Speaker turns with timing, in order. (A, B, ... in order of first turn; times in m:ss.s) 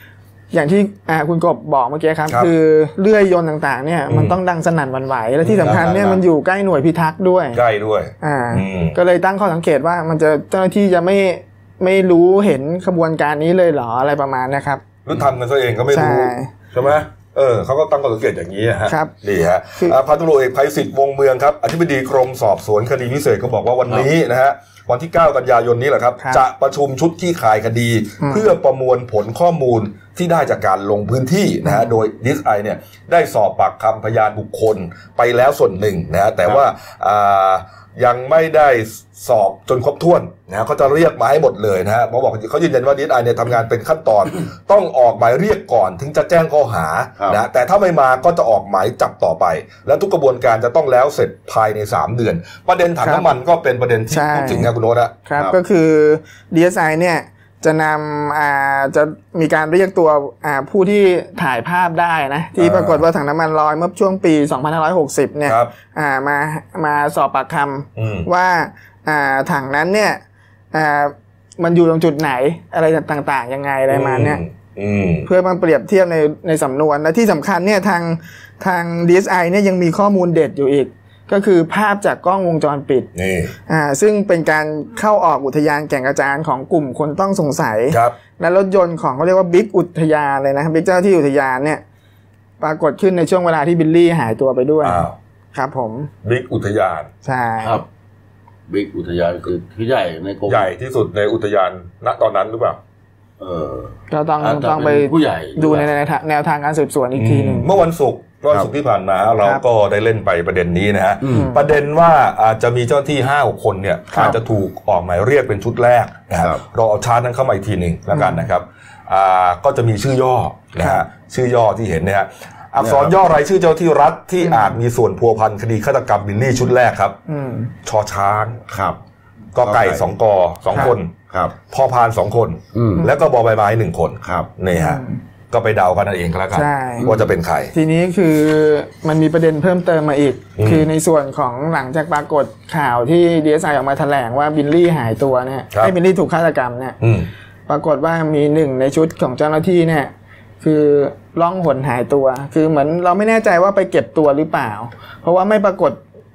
0:00.5-0:07.6 A
0:04.1-0:04.4 B
0:05.4-0:05.9 B
0:05.6-0:06.2 C
0:07.5-0:09.0 B
0:08.2-0:14.8 A
0:15.0-0:55.1 B
0:15.9-0:16.5 A
0:18.9-0:19.1 A
0:28.2-0:28.5 A
0:31.6-0:32.0 A
0:53.0-0:53.3 A
0:54.1-0:54.7 A
0:55.2-1:10.2 A
1:02.6-1:03.0 B
1:05.4-1:05.7 B
1:08.0-1:08.3 B
1:10.7-1:14.4 A
1:13.9-1:15.3 B
1:15.2-1:23.1 A
1:23.1-1:23.5 B
1:23.7-1:31.8 A
1:27.9-1:28.2 B
1:32.6-1:36.1 A
1:34.8-1:35.1 B
1:36.2-1:37.1 B
1:37.2-1:37.8 A
1:37.6-1:37.8 C
1:38.7-1:40.7 C
1:40.5-1:42.8 B
1:43.4-1:45.9 C
1:44.1-1:47.7 A
1:47.1-2:07.2 B
1:51.2-1:51.5 C
1:51.3-1:51.6 A
1:58.1-1:58.5 A
2:02.8-2:03.2 C
2:04.4-2:04.8 A
2:07.3-2:07.7 A
2:07.8-2:08.6 B
2:08.7-2:09.0 C
2:09.5-2:11.1 B
2:09.6-2:10.1 C
2:10.7-2:11.5 C
2:11.7-2:17.7 B
2:12.7-2:13.1 C
2:14.2-2:14.5 C
2:14.7-2:15.2 A
2:16.5-2:17.1 A
2:17.0-2:17.3 C
2:17.7-2:27.0 A
2:20.6-2:20.9 B
2:27.0-2:27.3 B
2:27.7-2:36.0 A